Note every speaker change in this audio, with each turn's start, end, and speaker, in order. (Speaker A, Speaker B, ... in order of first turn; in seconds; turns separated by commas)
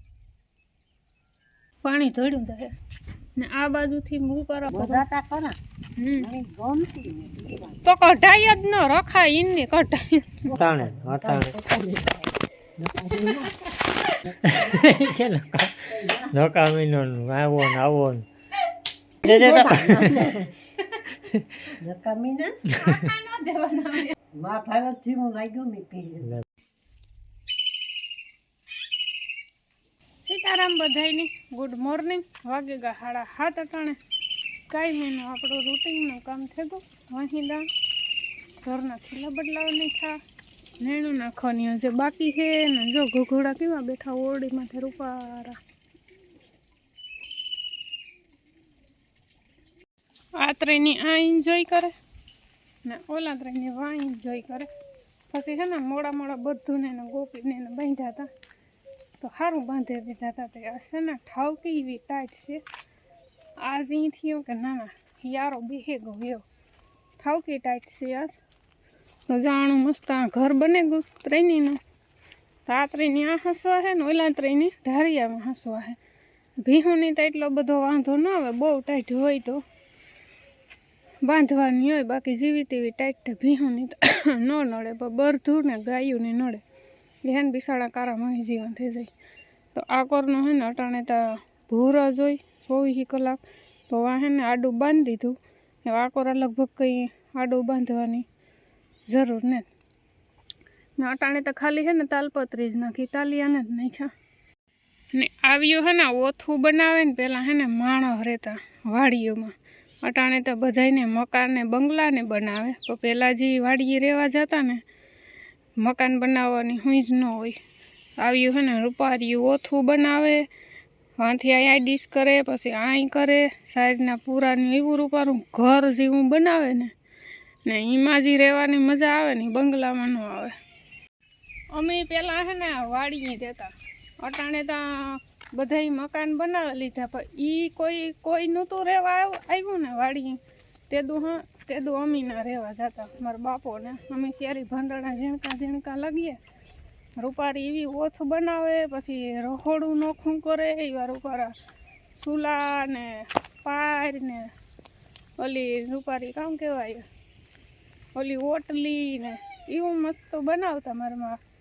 Speaker A: 1.8-2.7, Speaker A: 3.4-5.0, Speaker B: 4.7-5.5, Speaker A: 6.0-6.3, Speaker B: 6.2-7.8, Speaker A: 7.8-10.4, Speaker B: 10.4-13.5, Speaker C: 10.5-11.5, Speaker A: 13.7-14.2, Speaker B: 14.2-14.9, Speaker C: 14.4-18.2, Speaker B: 15.9-16.4, Speaker C: 19.2-20.2, Speaker B: 19.2-20.5, Speaker B: 21.8-22.6, Speaker A: 22.8-24.1, Speaker B: 24.3-26.4, Speaker A: 30.2-34.0, Speaker A: 34.7-37.7, Speaker A: 38.6-40.2, Speaker A: 40.8-45.6, Speaker A: 50.4-51.9, Speaker A: 52.8-54.7, Speaker A: 55.3-58.3, Speaker A: 59.2-62.6, Speaker A: 63.6-66.4, Speaker A: 67.2-68.4, Speaker A: 69.3-71.8, Speaker A: 72.7-76.0, Speaker A: 76.6-79.6, Speaker A: 81.2-86.6, Speaker A: 87.2-89.1, Speaker A: 89.7-98.2, Speaker A: 99.1-99.7, Speaker A: 101.0-104.1, Speaker A: 105.1-114.8, Speaker A: 115.8-117.6, Speaker A: 118.2-120.5, Speaker A: 121.2-126.9, Speaker A: 127.7-130.5, Speaker A: 131.7-140.4, Speaker A: 140.9-146.4, Speaker A: 147.2-151.5, Speaker A: 152.1-154.5, Speaker A: 155.4-157.0, Speaker A: 158.1-161.4